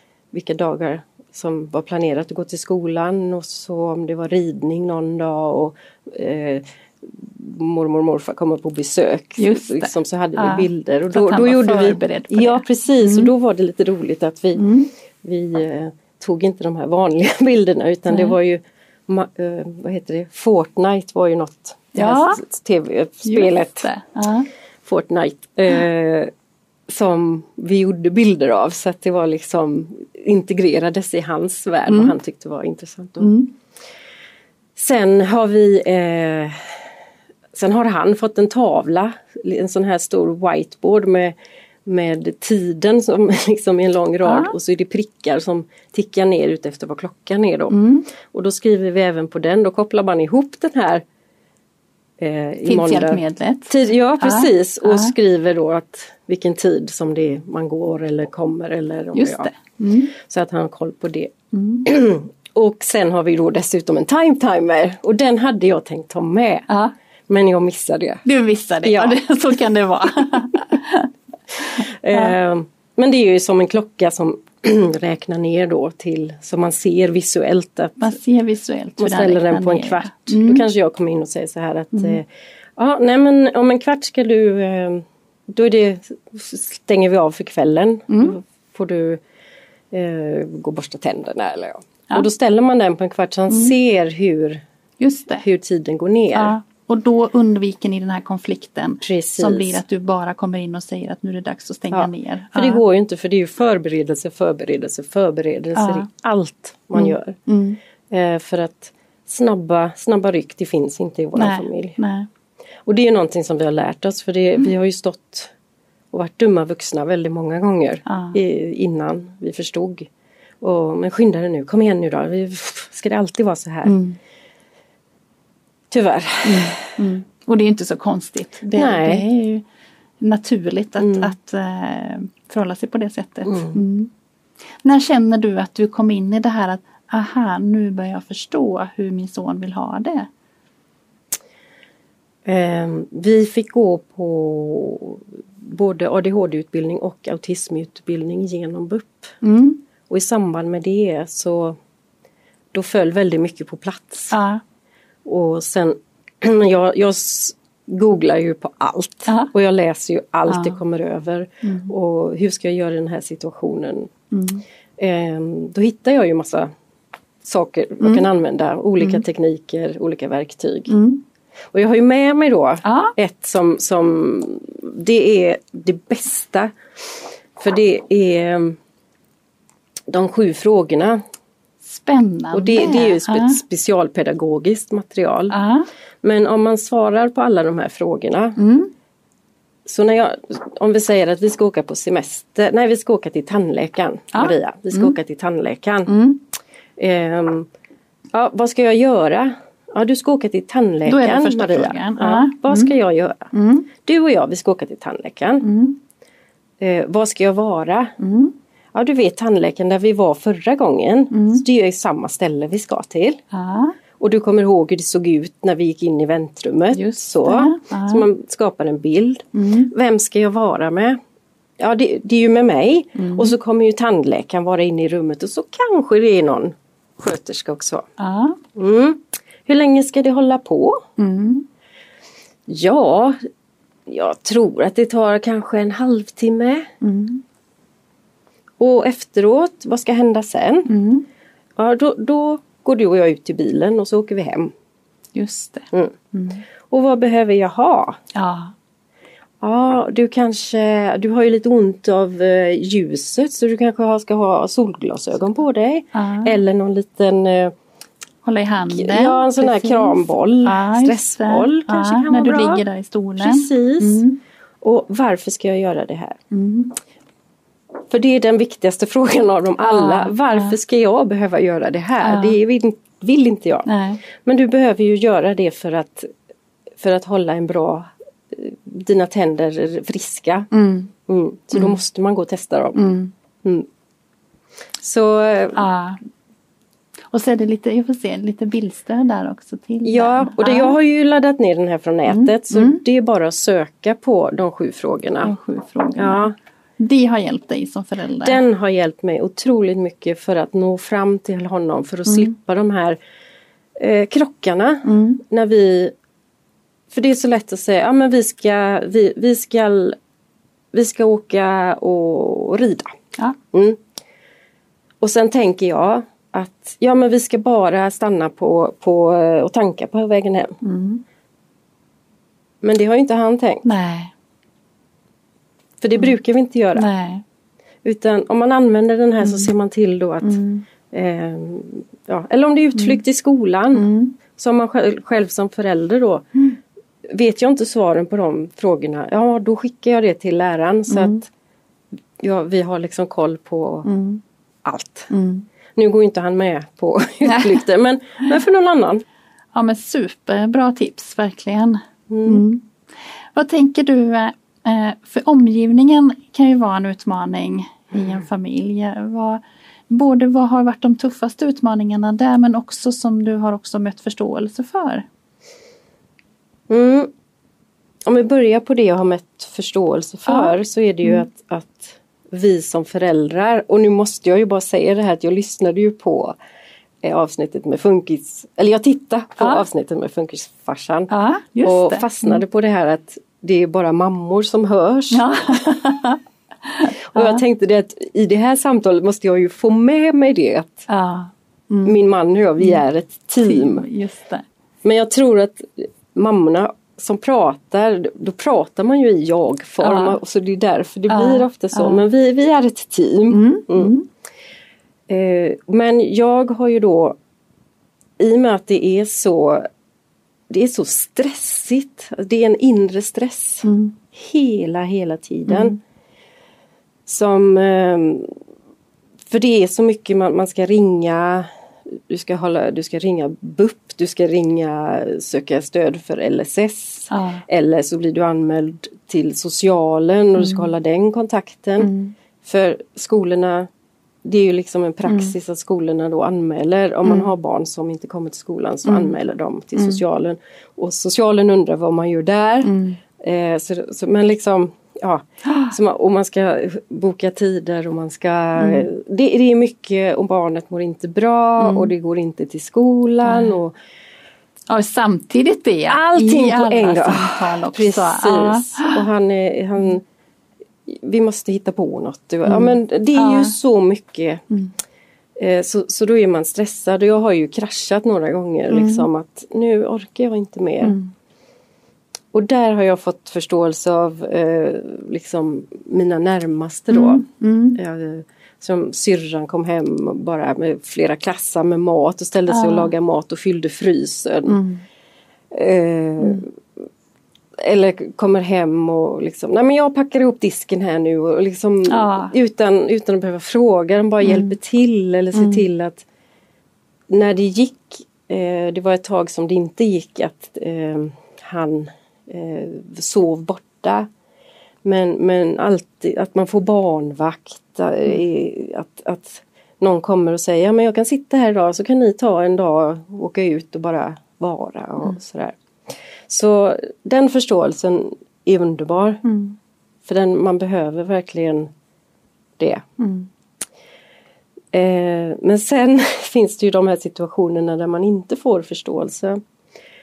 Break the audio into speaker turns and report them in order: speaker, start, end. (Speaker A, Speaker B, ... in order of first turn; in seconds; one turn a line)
Speaker A: 0.3-14.7
Speaker B: 9.4-13.3
Speaker B: 14.6-14.9
Speaker A: 15.2-23.9
Speaker B: 18.1-18.4
Speaker B: 21.9-22.4
Speaker B: 23.2-24.5
Speaker A: 24.9-26.3
Speaker A: 26.9-33.3
Speaker B: 33.2-33.5
Speaker A: 34.8-36.7
Speaker A: 37.5-41.3
Speaker A: 41.9-51.0
Speaker B: 44.2-44.5
Speaker B: 47.7-48.1
Speaker A: 52.2-59.5
Speaker B: 52.7-55.1
Speaker B: 59.1-60.1
Speaker A: 60.1-61.3
Speaker B: 61.5-61.9
Speaker A: 61.8-66.7
Speaker A: 67.3-68.2
Speaker B: 68.2-71.1
Speaker A: 68.8-69.2
Speaker B: 71.7-72.3
Speaker A: 71.7-78.2
Speaker B: 78.0-80.7
Speaker A: 79.0-89.2
Speaker B: 81.9-82.2
Speaker B: 88.1-88.4
Speaker A: 89.9-94.6
Speaker B: 95.0-95.5
Speaker A: 95.4-96.5
Speaker B: 96.3-102.8
Speaker A: 99.0-99.8
Speaker A: 101.9-107.4
Speaker B: 105.8-106.1
Speaker B: 107.0-107.8
Speaker A: 108.1-112.0
Speaker B: 111.3-112.3
Speaker A: 112.9-115.5
Speaker A: 116.1-120.1
Speaker B: 118.1-118.4
Speaker A: 120.6-124.0
Speaker B: 123.8-124.2
Speaker A: 125.9-126.8
Speaker B: 126.4-129.7
Speaker A: 128.8-129.2
Speaker B: 130.2-134.1
Speaker A: 131.0-131.3
Speaker A: 133.5-133.8
Speaker B: 134.8-140.3
Speaker A: 142.4-149.3
Speaker B: 149.4-149.8
Speaker A: 150.1-151.8
Speaker A: 152.7-154.3
Speaker B: 154.3-154.6
Speaker A: 155.2-164.1
Speaker B: 160.5-160.8
Speaker B: 161.6-161.9
Speaker B: 164.3-164.6
Speaker A: 165.0-166.7
Speaker A: 167.4-170.9
Speaker B: 168.0-168.3
Speaker B: 170.9-171.2
Speaker A: 171.7-176.7
Speaker B: 172.8-173.1
Speaker A: 177.6-178.8
Speaker A: 180.1-181.2
Speaker B: 181.8-183.6
Speaker A: 182.5-185.6
Speaker B: 185.5-185.9
Speaker A: 186.2-188.6
Speaker B: 188.6-188.9
Speaker A: 189.9-196.1
Speaker B: 194.3-195.2
Speaker B: 196.1-196.4
Speaker A: 197.0-197.7
Speaker A: 198.3-205.7
Speaker B: 201.1-202.9
Speaker B: 203.5-203.9
Speaker B: 205.6-206.0
Speaker A: 206.8-208.1
Speaker B: 208.2-208.6
Speaker A: 208.9-213.4
Speaker B: 211.3-211.6
Speaker B: 213.5-214.0
Speaker A: 214.2-221.2
Speaker B: 216.9-218.3
Speaker B: 219.5-219.9
Speaker A: 221.8-228.1
Speaker B: 223.2-223.6
Speaker B: 228.2-228.6
Speaker A: 228.8-231.0
Speaker B: 231.2-231.7
Speaker A: 232.7-233.4
Speaker A: 234.1-236.9
Speaker B: 237.0-237.4
Speaker A: 238.8-240.9
Speaker B: 240.9-241.2
Speaker A: 241.8-244.7
Speaker B: 245.3-246.6
Speaker A: 246.9-248.2
Speaker B: 248.3-248.7
Speaker A: 249.6-257.7
Speaker B: 256.1-256.6
Speaker B: 258.4-264.4
Speaker A: 258.9-262.8
Speaker A: 263.4-264.2
Speaker A: 264.8-266.4
Speaker B: 266.5-267.0
Speaker A: 268.1-276.3
Speaker B: 269.8-270.8
Speaker B: 272.2-272.6
Speaker B: 273.9-274.2
Speaker A: 277.0-280.7
Speaker B: 280.7-281.1
Speaker A: 281.3-283.0
Speaker B: 282.9-283.3
Speaker A: 285.0-285.8
Speaker B: 285.8-286.2
Speaker B: 287.3-291.0
Speaker A: 290.0-295.5
Speaker B: 292.3-293.0
Speaker B: 295.4-298.6
Speaker A: 296.2-296.5
Speaker A: 298.4-303.2
Speaker B: 302.3-302.5
Speaker A: 304.0-306.1
Speaker B: 305.1-305.4
Speaker A: 307.1-310.2
Speaker A: 310.9-313.1
Speaker A: 313.7-314.0
Speaker A: 315.2-320.8
Speaker B: 320.8-321.2
Speaker A: 322.8-323.9
Speaker B: 323.9-324.3
Speaker A: 326.0-327.1
Speaker B: 326.9-327.4
Speaker A: 328.0-336.6
Speaker B: 329.4-329.7
Speaker B: 330.4-330.9
Speaker B: 333.9-334.4
Speaker A: 337.3-341.5
Speaker B: 341.1-341.4
Speaker A: 342.4-344.1
Speaker B: 344.1-344.4
Speaker A: 344.8-345.3
Speaker B: 345.3-345.7
Speaker A: 346.0-349.2
Speaker B: 347.4-347.7
Speaker B: 349.7-352.8
Speaker A: 352.3-352.7
Speaker B: 353.6-365.2
Speaker A: 366.9-367.3
Speaker A: 368.3-376.5
Speaker B: 370.5-370.7
Speaker A: 377.2-381.3
Speaker B: 379.6-379.9
Speaker B: 381.3-382.6
Speaker A: 381.8-385.9
Speaker B: 385.3-387.6
Speaker A: 387.2-391.1
Speaker B: 391.1-392.2
Speaker A: 392.1-394.1
Speaker B: 393.6-394.6
Speaker A: 395.0-404.1
Speaker B: 400.0-400.4
Speaker B: 401.3-402.2
Speaker B: 403.5-404.3
Speaker A: 405.3-407.4
Speaker A: 408.4-409.9
Speaker A: 410.7-416.0
Speaker B: 413.8-414.2
Speaker B: 415.7-416.0
Speaker A: 417.3-418.5
Speaker A: 419.5-433.9
Speaker B: 427.3-427.6
Speaker B: 430.6-430.9
Speaker B: 432.0-432.3
Speaker A: 434.4-453.9
Speaker B: 435.3-435.5
Speaker B: 439.1-439.3
Speaker B: 442.8-443.2
Speaker B: 445.6-445.9
Speaker B: 448.8-449.1
Speaker B: 451.8-452.1
Speaker B: 453.4-453.8
Speaker B: 454.9-459.2
Speaker A: 456.1-460.2
Speaker A: 461.1-464.6
Speaker B: 462.7-463.8
Speaker A: 465.6-471.2
Speaker B: 468.9-469.3
Speaker B: 471.0-471.3
Speaker A: 472.5-484.8
Speaker B: 477.1-478.0
Speaker B: 482.7-483.1
Speaker B: 484.7-485.0
Speaker A: 485.7-486.8
Speaker A: 487.8-496.3
Speaker B: 492.1-492.5
Speaker B: 494.4-494.8
Speaker B: 495.5-495.9
Speaker A: 497.3-504.3
Speaker A: 505.0-515.8
Speaker A: 516.5-519.4
Speaker B: 519.4-519.8
Speaker A: 520.2-521.9
Speaker A: 522.8-523.0
Speaker B: 523.2-523.5
Speaker A: 524.9-529.6